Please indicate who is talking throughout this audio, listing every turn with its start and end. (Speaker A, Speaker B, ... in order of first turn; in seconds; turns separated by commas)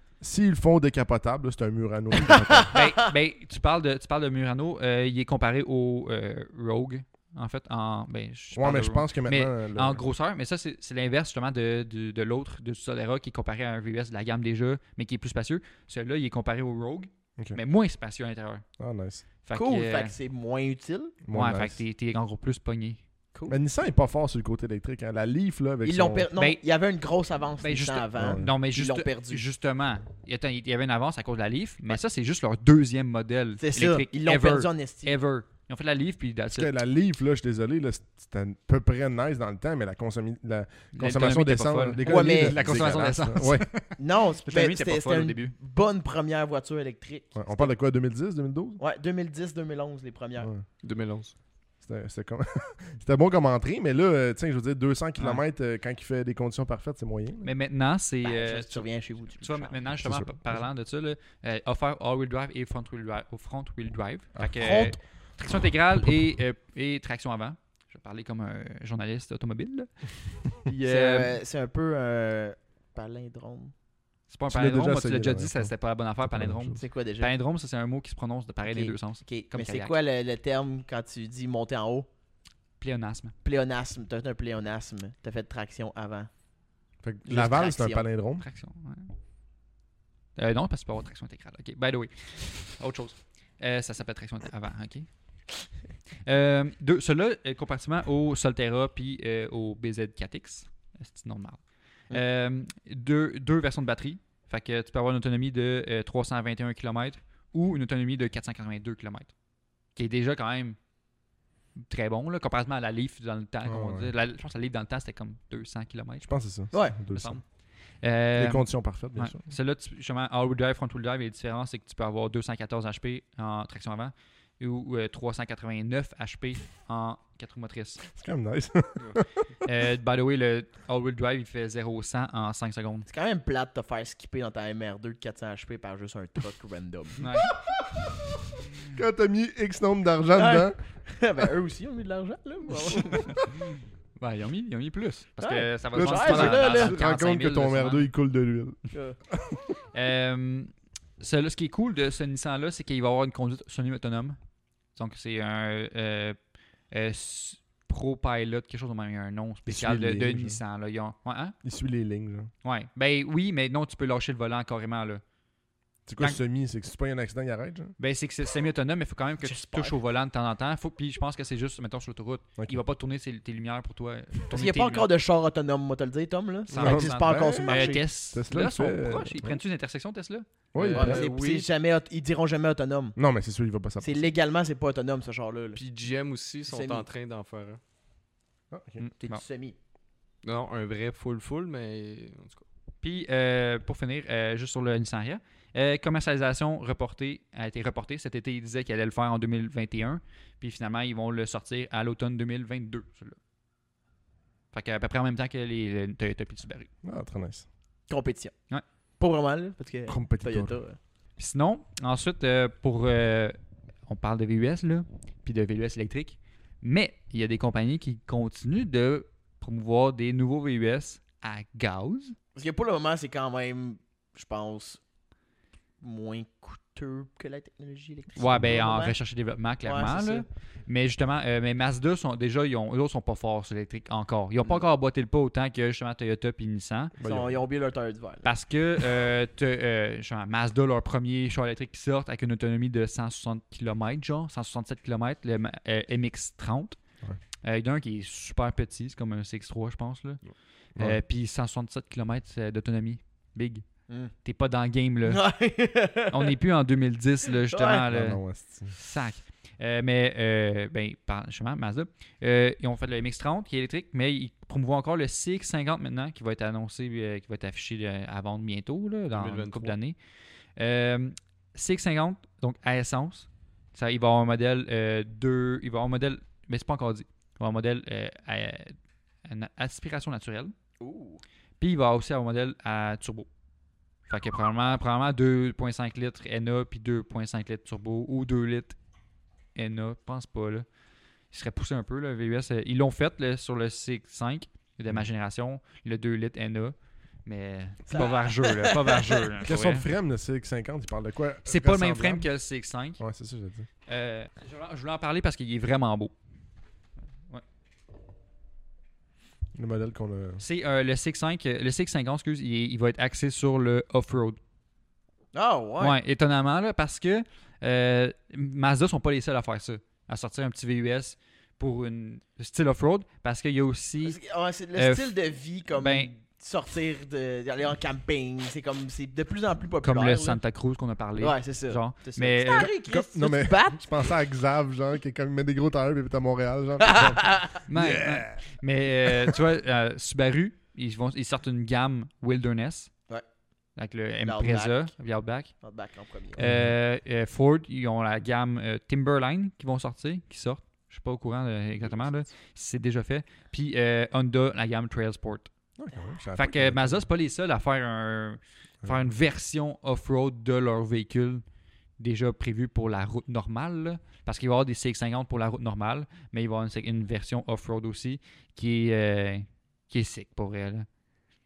Speaker A: 0.2-2.8, Speaker B: 2.5-2.9, Speaker C: 2.7-18.6, Speaker A: 8.5-10.0, Speaker A: 18.8-19.2, Speaker C: 19.4-20.1, Speaker B: 19.5-21.1, Speaker A: 21.2-21.8, Speaker C: 21.3-23.0, Speaker A: 23.5-26.3, Speaker B: 25.8-29.4, Speaker C: 27.6-36.7, Speaker A: 28.2-28.5, Speaker B: 33.6-35.1, Speaker A: 36.5-43.7, Speaker C: 40.9-45.5, Speaker B: 42.0-42.7, Speaker B: 44.0-47.7, Speaker A: 47.3-48.8, Speaker B: 48.8-50.5, Speaker D: 50.8-51.3, Speaker A: 51.8-57.5, Speaker C: 57.4-71.3, Speaker B: 58.2-59.8, Speaker A: 60.0-60.6, Speaker A: 64.4-64.6, Speaker B: 64.5-64.9, Speaker B: 70.8-73.7, Speaker C: 74.3-79.9, Speaker A: 74.5-75.7, Speaker A: 76.2-76.8, Speaker B: 76.8-77.3, Speaker B: 78.7-82.1, Speaker C: 82.8-83.3, Speaker B: 83.4-86.3, Speaker A: 87.0-88.4, Speaker B: 87.2-88.0, Speaker C: 88.4-89.1, Speaker C: 90.3-95.6, Speaker C: 96.2-109.3, Speaker C: 109.9-110.8, Speaker C: 111.8-116.3, Speaker A: 113.6-114.1, Speaker A: 116.2-117.4, Speaker C: 117.1-117.4, Speaker C: 118.0-128.0, Speaker A: 118.3-119.4, Speaker A: 128.1-129.2, Speaker C: 129.6-133.1, Speaker B: 133.1-137.2, Speaker C: 137.2-137.5, Speaker A: 138.9-140.8, Speaker B: 140.3-143.3, Speaker C: 143.2-143.5, Speaker C: 144.2-148.1, Speaker B: 145.4-147.0, Speaker A: 145.9-148.8, Speaker B: 148.9-149.2, Speaker A: 149.3-149.7, Speaker C: 149.9-154.4, Speaker C: 154.9-156.4, Speaker C: 156.9-161.5, Speaker A: 159.7-160.6, Speaker A: 161.6-162.5, Speaker C: 162.6-165.2, Speaker A: 166.1-167.9, Speaker C: 168.0-175.1, Speaker B: 169.4-169.9, Speaker B: 174.5-178.0, Speaker C: 176.7-180.4, Speaker A: 176.8-179.6, Speaker A: 180.7-181.2, Speaker D: 180.8-181.7, Speaker B: 180.9-183.2, Speaker A: 183.2-184.3, Speaker B: 184.0-185.8, Speaker D: 185.7-187.8, Speaker B: 186.7-187.0, Speaker A: 188.7-189.0, Speaker C: 189.0-189.4, Speaker B: 189.2-189.7, Speaker D: 190.4-192.6, Speaker C: 193.0-203.4, Speaker C: 204.7-206.9, Speaker A: 207.0-207.7, Speaker B: 208.1-208.5, Speaker B: 209.2-211.0, Speaker A: 210.1-210.8, Speaker C: 211.4-213.6, Speaker C: 214.1-222.3, Speaker B: 222.6-225.0, Speaker B: 226.0-229.1, Speaker C: 228.4-237.1, Speaker B: 229.8-230.4, Speaker A: 237.2-237.5, Speaker B: 237.2-238.5, Speaker C: 238.4-247.0, Speaker C: 247.6-253.8, Speaker C: 254.4-255.4, Speaker B: 255.2-256.5, Speaker C: 256.3-270.1, Speaker B: 257.7-258.0, Speaker A: 258.1-258.9, Speaker D: 269.3-269.9, Speaker C: 270.8-280.7, Speaker B: 281.0-281.4, Speaker C: 281.8-283.5, Speaker C: 284.3-289.0, Speaker C: 289.7-290.8, Speaker C: 291.5-300.1, Speaker B: 298.1-299.4, Speaker A: 299.6-302.5, Speaker C: 301.6-303.2, Speaker A: 303.2-303.9, Speaker C: 304.1-306.3, Speaker A: 309.7-310.6, Speaker C: 310.6-314.6, Speaker B: 315.5-316.1, Speaker C: 316.0-324.4, Speaker B: 324.2-330.6, Speaker C: 324.9-325.3, Speaker C: 325.9-326.3, Speaker C: 330.0-332.9, Speaker B: 331.4-334.0, Speaker A: 333.0-338.6, Speaker B: 337.0-337.8, Speaker C: 337.9-343.1, Speaker C: 344.0-345.7, Speaker B: 344.4-345.1, Speaker B: 345.8-346.6, Speaker C: 346.6-355.7, Speaker A: 346.6-346.9, Speaker A: 356.0-357.2, Speaker C: 356.6-361.6, Speaker C: 362.2-371.1